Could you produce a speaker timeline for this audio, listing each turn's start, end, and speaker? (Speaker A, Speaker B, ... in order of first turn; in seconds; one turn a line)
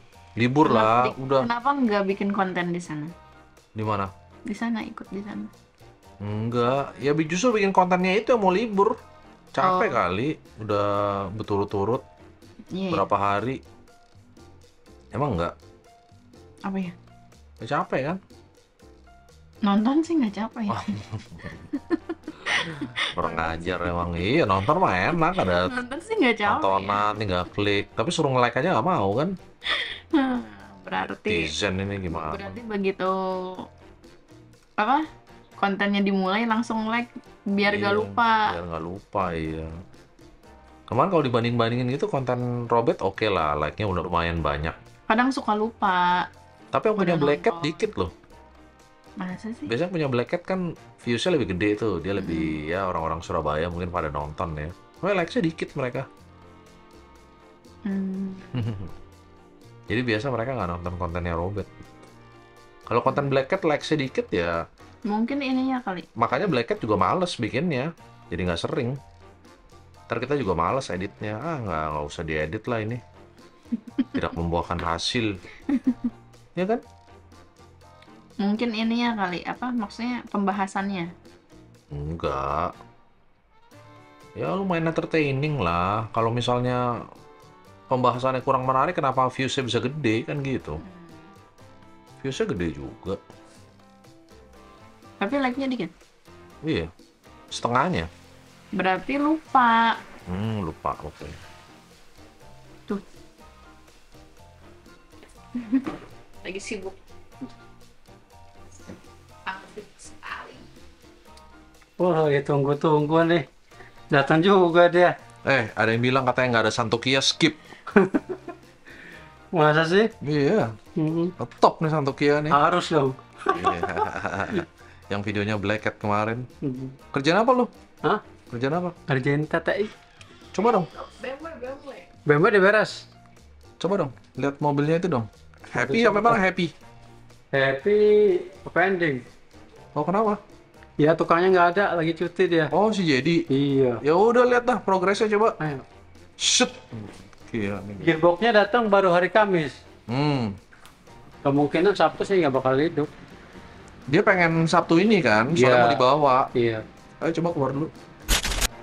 Speaker A: 0.4-1.5
Speaker B: 0.6-3.1
Speaker A: 3.8-4.1
Speaker B: 4.5-5.5
Speaker A: 6.2-9.0
Speaker A: 9.6-12.0
Speaker B: 9.6-9.9
Speaker B: 12.7-13.1
Speaker A: 12.9-13.6
Speaker A: 15.1-15.5
Speaker B: 16.7-16.9
Speaker A: 17.6-18.2
Speaker B: 19.6-20.9
Speaker A: 20.7-21.6
Speaker B: 21.8-23.8
Speaker A: 23.1-25.7
Speaker B: 25.5-27.0
Speaker A: 26.4-29.4
Speaker B: 29.7-31.5
Speaker A: 31.2-32.6
Speaker B: 32.1-33.6
Speaker B: 34.8-35.0
Speaker B: 35.6-38.4
Speaker A: 37.6-39.7
Speaker A: 40.9-44.8
Speaker B: 45.1-46.2
Speaker A: 46.7-48.1
Speaker B: 47.0-47.8
Speaker B: 49.2-49.7
Speaker A: 49.7-56.1
Speaker B: 52.2-52.6
Speaker B: 57.9-58.5
Speaker A: 58.5-58.9
Speaker A: 59.9-61.7
Speaker A: 62.9-64.6
Speaker B: 65.1-66.1
Speaker A: 66.2-69.0
Speaker A: 70.1-73.0
Speaker A: 74.1-75.3
Speaker B: 75.7-76.0
Speaker A: 76.6-76.8
Speaker B: 78.4-81.1
Speaker A: 81.9-82.7
Speaker A: 84.4-86.8
Speaker A: 87.9-90.8
Speaker B: 90.8-91.2
Speaker A: 92.2-93.2
Speaker B: 95.2-95.9
Speaker A: 96.6-96.9
Speaker A: 97.5-98.1
Speaker B: 98.8-100.0
Speaker A: 100.3-101.4
Speaker B: 105.6-105.9
Speaker B: 106.4-107.0
Speaker B: 109.5-110.6
Speaker C: 112.0-113.5
Speaker C: 114.1-115.1
Speaker A: 115.5-117.6
Speaker C: 118.0-118.3
Speaker C: 119.5-120.1
Speaker A: 120.2-120.7
Speaker C: 121.0-121.3
Speaker A: 121.4-122.6
Speaker C: 122.5-123.9
Speaker A: 123.5-126.5
Speaker C: 126.6-127.0
Speaker A: 127.1-127.7
Speaker A: 128.5-129.0
Speaker C: 129.1-129.9
Speaker A: 130.5-130.9
Speaker B: 131.2-132.1
Speaker C: 132.2-133.1
Speaker A: 133.8-136.7
Speaker C: 135.7-136.4
Speaker C: 137.5-139.2
Speaker A: 139.9-140.4
Speaker C: 141.0-142.7
Speaker A: 142.7-143.4
Speaker C: 143.5-144.0
Speaker A: 144.0-145.6
Speaker A: 146.4-148.1
Speaker C: 148.0-149.8
Speaker A: 150.1-150.6
Speaker C: 151.4-153.1
Speaker A: 154.1-156.5
Speaker C: 155.5-156.8
Speaker A: 157.2-157.9